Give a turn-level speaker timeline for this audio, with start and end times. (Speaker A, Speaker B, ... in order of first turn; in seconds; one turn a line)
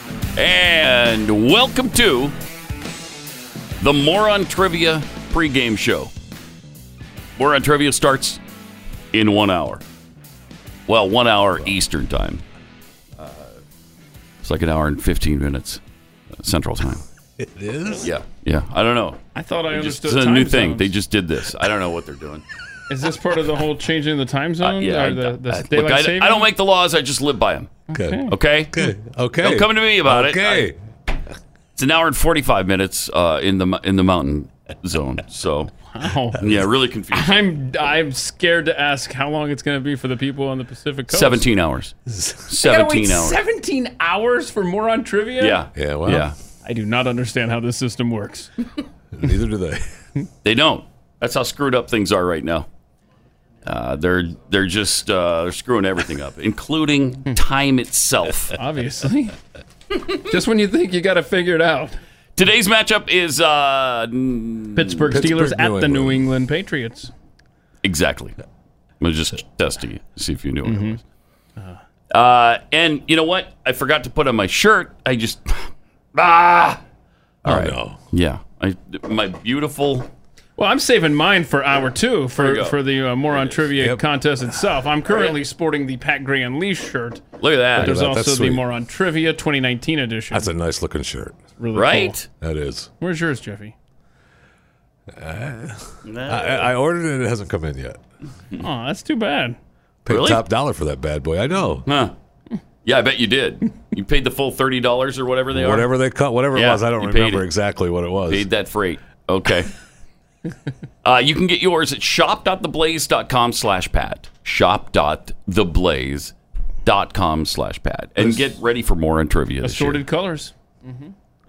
Speaker A: 0.3-2.3
Speaker A: 3.8-6.1
Speaker A: 7.4-8.4
Speaker A: 9.1-9.8
Speaker A: 10.9-12.4
Speaker A: 13.2-13.6
Speaker A: 14.4-15.8
Speaker A: 16.3-17.0
Speaker B: 17.4-18.1
Speaker A: 18.0-22.4
Speaker C: 19.3-20.9
Speaker C: 22.9-26.5
Speaker A: 24.6-27.8
Speaker C: 27.9-28.3
Speaker B: 27.9-28.2
Speaker A: 28.3-28.8
Speaker B: 28.7-30.8
Speaker A: 29.4-30.7
Speaker A: 31.8-35.7
Speaker C: 35.9-36.5
Speaker A: 36.4-37.4
Speaker C: 37.1-41.5
Speaker A: 41.1-41.9
Speaker B: 42.1-42.5
Speaker A: 42.5-43.4
Speaker C: 42.6-45.6
Speaker A: 45.4-46.3
Speaker B: 45.7-46.2
Speaker C: 46.6-48.5
Speaker B: 49.1-49.8
Speaker A: 50.4-52.7
Speaker A: 53.6-58.5
Speaker C: 58.6-59.3
Speaker C: 60.3-62.0
Speaker A: 62.4-65.2
Speaker C: 64.8-67.1
Speaker B: 65.1-66.2
Speaker A: 67.8-68.3
Speaker A: 69.0-71.0
Speaker C: 70.6-71.0
Speaker A: 72.1-76.8
Speaker B: 77.4-78.0
Speaker A: 77.4-80.1
Speaker C: 80.6-87.2
Speaker A: 82.4-82.7
Speaker A: 83.3-83.6
Speaker A: 85.1-85.4
Speaker A: 87.4-88.0
Speaker C: 87.8-90.5
Speaker B: 87.8-88.6
Speaker B: 90.3-91.4
Speaker C: 91.6-92.1
Speaker A: 91.7-92.3
Speaker B: 92.4-92.9
Speaker C: 93.0-93.7
Speaker B: 95.1-98.0
Speaker A: 96.0-96.7
Speaker C: 98.6-99.6
Speaker B: 100.0-101.8
Speaker A: 100.1-100.4
Speaker A: 101.8-102.1
Speaker A: 102.8-105.9
Speaker B: 105.5-108.5
Speaker A: 106.5-107.4
Speaker A: 108.3-109.7
Speaker A: 111.0-120.0
Speaker C: 119.6-121.1